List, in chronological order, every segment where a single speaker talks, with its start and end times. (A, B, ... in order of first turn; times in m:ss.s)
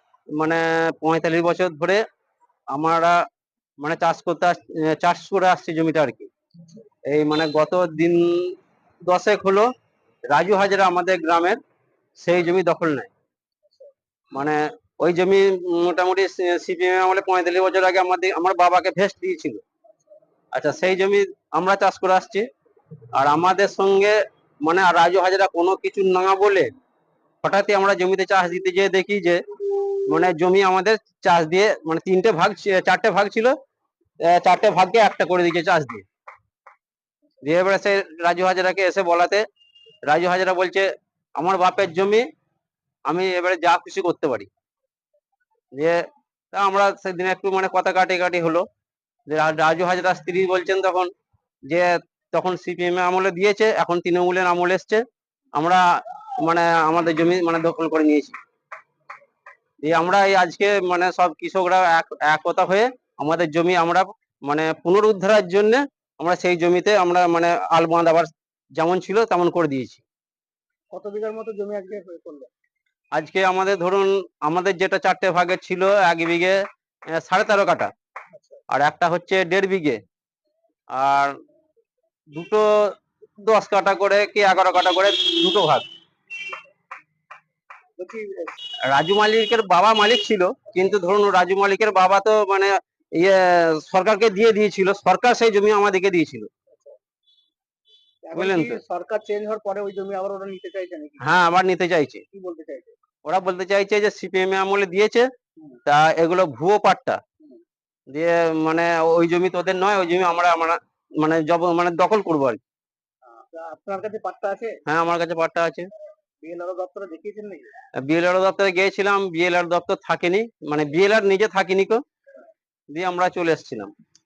0:00.4-0:02.0 A
0:02.7-0:03.2 A
0:03.8-0:06.3 A
0:07.1-0:08.5 A
0:09.0-0:09.7 A
0:10.3-0:11.6 A
0:12.2-0:13.1 A
0:14.3-0:19.6 A
0:20.5-0:22.5 A
0:23.1-0:26.7 A
0:27.4-0:29.4 A
0:30.1-0:33.5 A
0:34.2-0:36.0 A
0:37.4-0:39.4 A
0:40.1-0:42.2 A
0:43.1-0:44.5 A
0:45.7-0:46.0 A
0:46.5-0:48.6 A
0:49.3-0:51.1 A
0:51.7-0:55.0 A
0:55.6-0:55.8 A
0:56.4-0:58.4 A
0:59.8-1:10.0 A
1:10.9-1:12.5 B
1:13.1-1:16.6 A
1:17.1-1:17.9 A
1:18.7-1:20.0 A
1:20.9-1:21.3 A
1:22.3-1:25.9 A
1:28.0-1:28.5 B
1:28.9-1:36.5 A
1:38.2-1:41.2 B
1:38.3-1:38.8 A
1:41.2-1:42.2 A
1:42.3-1:42.9 B
1:43.2-1:45.3 A
1:45.8-1:47.2 A
1:48.1-1:52.6 A
1:53.3-1:54.8 B
1:54.9-1:55.9 A
1:56.4-1:57.7 B
1:58.0-2:02.0 A
2:02.9-2:03.9 A